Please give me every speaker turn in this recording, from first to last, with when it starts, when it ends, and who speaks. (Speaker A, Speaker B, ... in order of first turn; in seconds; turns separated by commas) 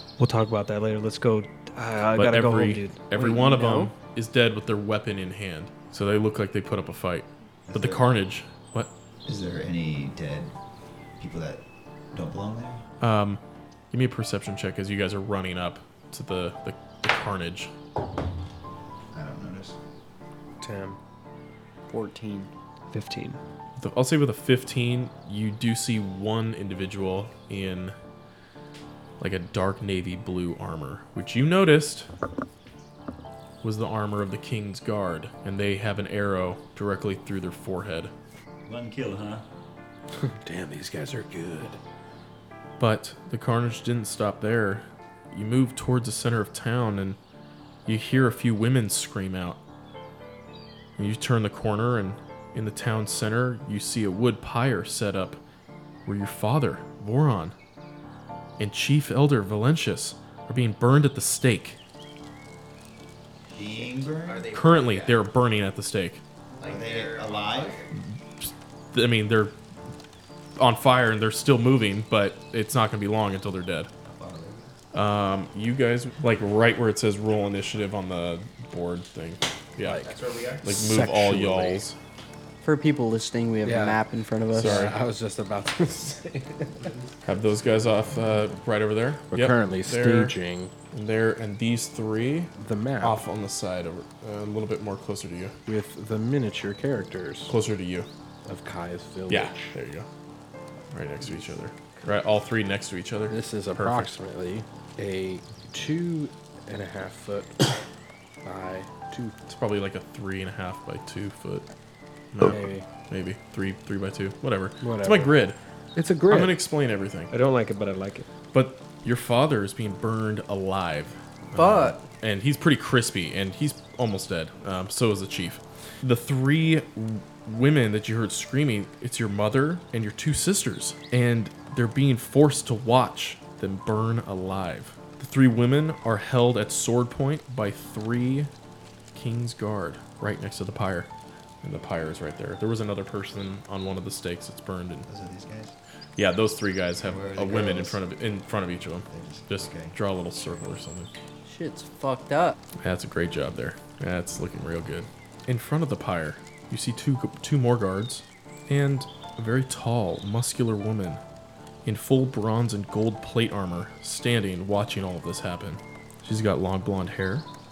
Speaker A: 0.2-3.8, Speaker B: 2.1-8.9, Speaker C: 3.2-3.9, Speaker D: 7.7-8.0, Speaker D: 9.2-10.5, Speaker D: 11.2-12.8, Speaker B: 13.0-13.4, Speaker B: 13.9-17.7, Speaker D: 19.1-19.8, Speaker E: 20.6-21.0, Speaker C: 21.9-22.5, Speaker A: 22.9-23.4, Speaker B: 23.8-27.9, Speaker B: 29.2-32.1, Speaker B: 33.6-38.1, Speaker D: 38.6-39.4, Speaker E: 40.2-41.8, Speaker B: 42.8-47.2, Speaker B: 47.9-49.6, Speaker B: 51.0-55.4, Speaker B: 56.0-57.5, Speaker B: 58.6-61.8, Speaker D: 63.5-64.4, Speaker C: 63.7-65.1, Speaker F: 64.2-64.8, Speaker B: 64.5-66.2, Speaker F: 66.6-67.9, Speaker D: 66.6-67.8, Speaker B: 68.9-69.5, Speaker B: 70.5-73.9, Speaker D: 74.0-74.7, Speaker B: 74.9-80.0, Speaker E: 79.8-80.1, Speaker F: 80.0-80.7, Speaker B: 80.6-82.0, Speaker E: 80.9-81.3, Speaker C: 80.9-81.8, Speaker C: 82.6-84.9, Speaker E: 83.6-84.0, Speaker E: 84.5-86.9, Speaker B: 84.5-84.9, Speaker B: 87.2-90.3, Speaker E: 89.3-90.7, Speaker B: 90.9-95.5, Speaker E: 92.6-93.2, Speaker E: 95.7-97.5, Speaker B: 97.5-98.1, Speaker E: 98.4-99.7, Speaker B: 99.3-100.1, Speaker B: 100.9-104.1, Speaker E: 103.3-107.7, Speaker E: 108.4-109.3, Speaker B: 109.5-111.7, Speaker B: 112.3-115.6, Speaker E: 112.4-112.8, Speaker E: 114.8-115.3, Speaker E: 115.9-116.6, Speaker B: 116.3-117.3, Speaker A: 117.3-118.3, Speaker B: 118.5-138.5, Speaker C: 121.5-122.0, Speaker B: 139.1-141.1, Speaker B: 141.6-145.1, Speaker D: 145.1-145.8, Speaker B: 146.2-151.1, Speaker D: 147.0-148.0, Speaker D: 149.1-149.9, Speaker C: 151.4-152.6, Speaker B: 152.8-161.2, Speaker B: 161.8-167.5